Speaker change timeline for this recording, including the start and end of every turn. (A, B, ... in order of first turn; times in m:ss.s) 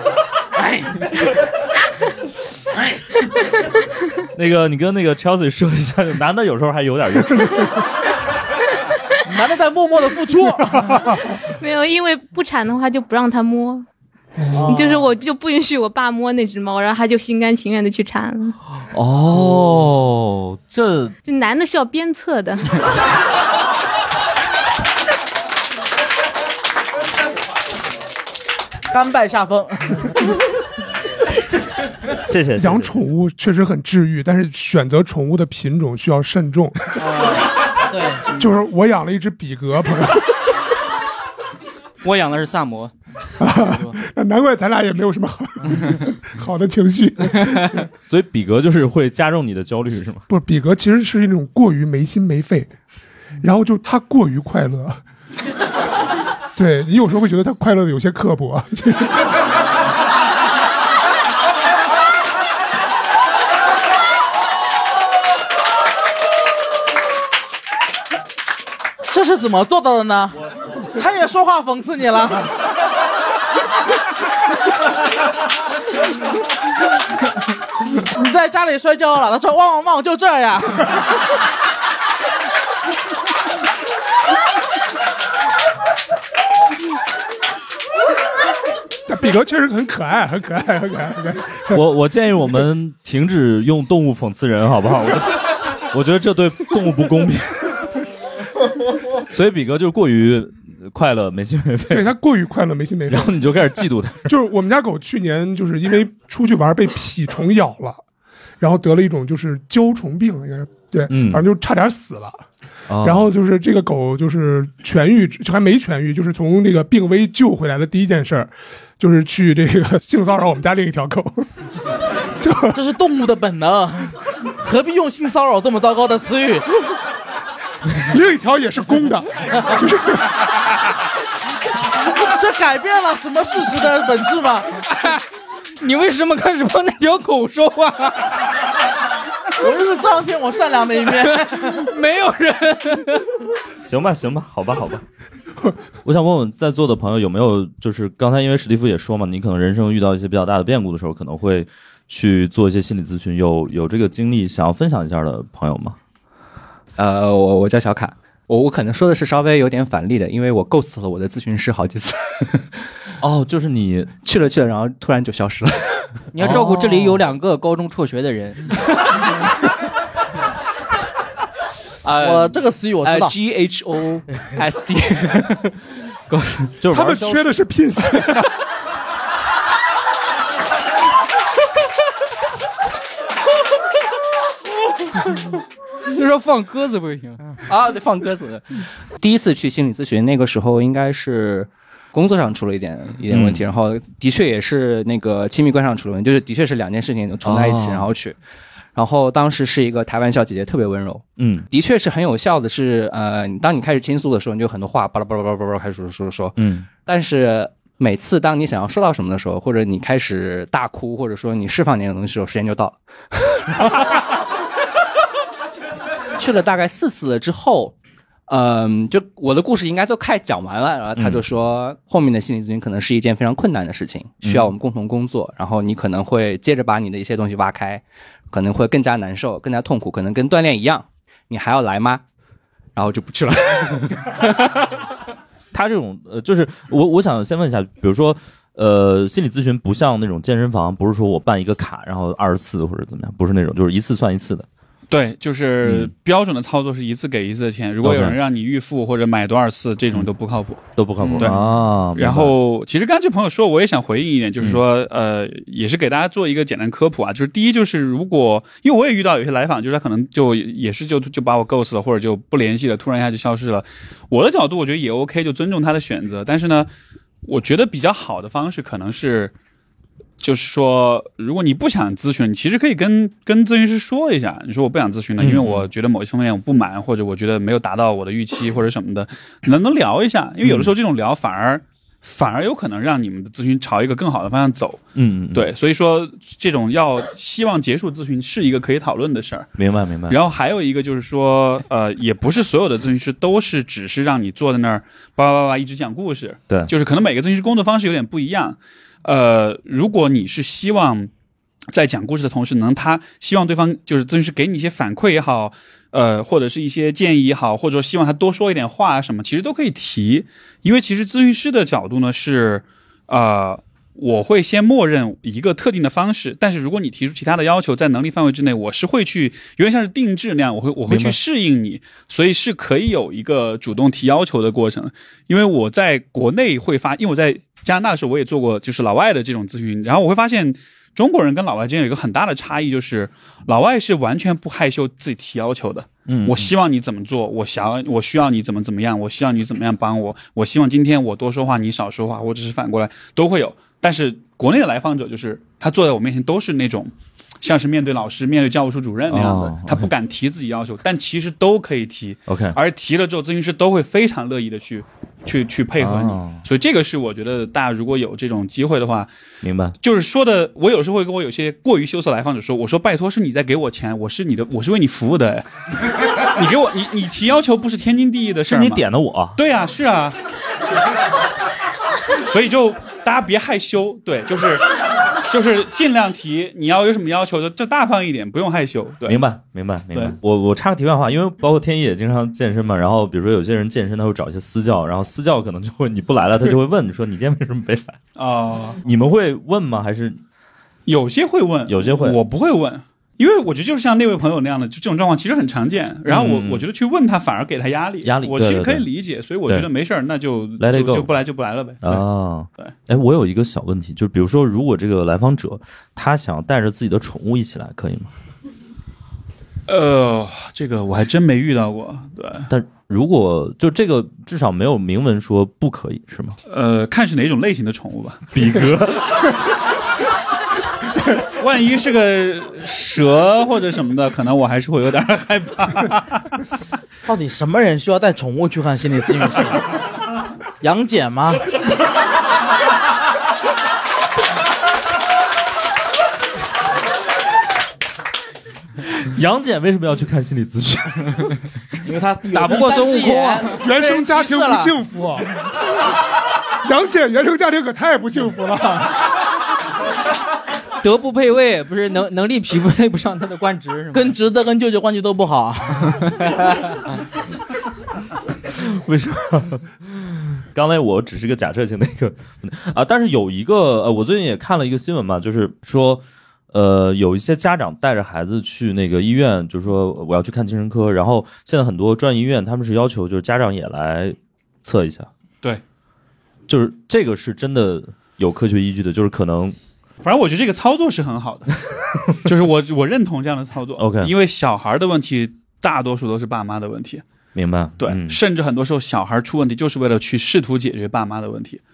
0:00.6-0:01.3 A
0:02.8-0:03.0 A
0:04.3-0:07.7 B
0:09.2-0:11.2 C
0:11.5-0:13.9 D
0:14.5-0:15.1 C
0:14.7-0:18.6 D
0:18.8-0:21.2 B
0:21.3-0:22.7 D
0:28.9-0:30.1 C
0:32.2-0:33.0 B
0:32.6-0:36.9 E
0:37.0-0:38.3 C
0:38.4-0:40.3 E
0:42.0-0:42.9 A
0:43.4-0:47.8 E
0:43.6-0:44.0 A
0:48.1-0:50.3 B
0:50.3-0:52.7 E
0:53.4-0:55.0 E
0:56.6-0:59.2 E
1:09.1-1:10.4 C
1:11.0-1:12.5 C
1:18.0-1:20.9 C
1:29.1-1:31.8 E
1:31.7-1:37.8 B
1:39.2-1:42.1 B
1:41.9-1:43.4 E
1:43.1-1:44.4 B
1:44.3-1:48.0 E
1:48.6-1:52.4 E
1:51.1-1:51.4 B
1:52.9-1:53.3 B
1:53.0-2:01.5 E
2:02.4-2:02.8 E
2:02.7-2:06.7 C
2:08.0-2:10.4 E
2:12.2-2:14.7 C
2:14.8-2:15.2 A
2:15.8-2:18.4 A
2:19.6-2:21.9 C
2:21.1-2:23.3 A
2:23.8-2:25.0 B
2:26.0-2:36.0 B
2:37.0-2:42.7 F
2:43.2-2:44.2 B
2:44.2-2:46.0 F
2:46.3-2:49.2 A
2:46.4-2:47.0 B
2:52.0-2:52.5 A
2:52.2-2:53.4 C
2:53.0-2:55.8 A
2:56.3-2:56.8 A
2:56.8-2:57.6 B
2:56.9-2:58.5 E
3:06.1-3:07.4 A
3:07.7-3:18.4 F
3:13.3-3:13.7 B
3:17.4-3:18.1 B
3:19.0-3:33.0 F
3:21.4-3:21.7 B
3:26.6-3:26.9 B
3:36.4-3:38.0 F
3:38.5-3:52.2 F
3:41.2-3:41.4 B
3:44.4-3:44.7 B
3:53.0-3:54.8 F
3:55.7-4:04.7 B
4:05.1-4:11.6 G
4:05.8-4:06.1 B
4:08.0-4:08.4 B
4:11.0-4:12.6 B
4:12.2-4:26.9 G
4:27.4-4:29.5 G
4:30.4-4:45.0 G
4:35.4-4:35.9 B
4:40.6-4:40.9 B
4:45.2-4:45.7 B
4:45.5-4:49.7 G
4:49.8-4:50.4 B
4:50.3-5:01.3 G
5:01.9-5:47.1 G
5:21.1-5:21.4 B
5:36.3-5:36.7 B
5:47.6-5:59.3 G
5:49.3-5:50.1 B
5:52.5-5:52.8 B
5:56.0-5:56.6 B
5:59.6-6:00.0 B
6:00.0-6:09.0 G
6:08.7-6:09.6 B
6:09.6-6:10.4 G
6:12.3-6:14.9 G
6:15.5-6:19.4 G
6:19.3-6:28.2 B
6:28.4-6:29.0 G
6:29.0-6:30.4 B
6:31.1-6:42.2 G
6:31.9-6:32.4 B
6:36.3-6:36.9 B
6:38.2-6:39.1 B
6:40.8-6:41.3 B
6:42.0-6:48.3 B
6:49.9-6:52.7 G
6:52.7-6:56.6 B
6:56.7-6:58.5 G
6:58.5-6:59.6 B
7:01.4-7:06.6 G
7:07.3-7:09.8 C
7:10.8-7:11.6 C
7:19.2-7:21.6 B
7:22.0-7:24.9 C
7:22.5-7:23.8 A
7:23.8-7:25.7 E
7:26.8-7:29.2 E
7:31.0-7:34.3 A
7:34.1-7:36.4 C
7:38.7-7:55.3 B
7:56.7-7:59.8 B
8:00.2-8:01.8 G
8:02.3-8:07.2 G
8:04.0-8:04.3 B
8:07.6-8:08.4 B
8:08.0-8:11.8 G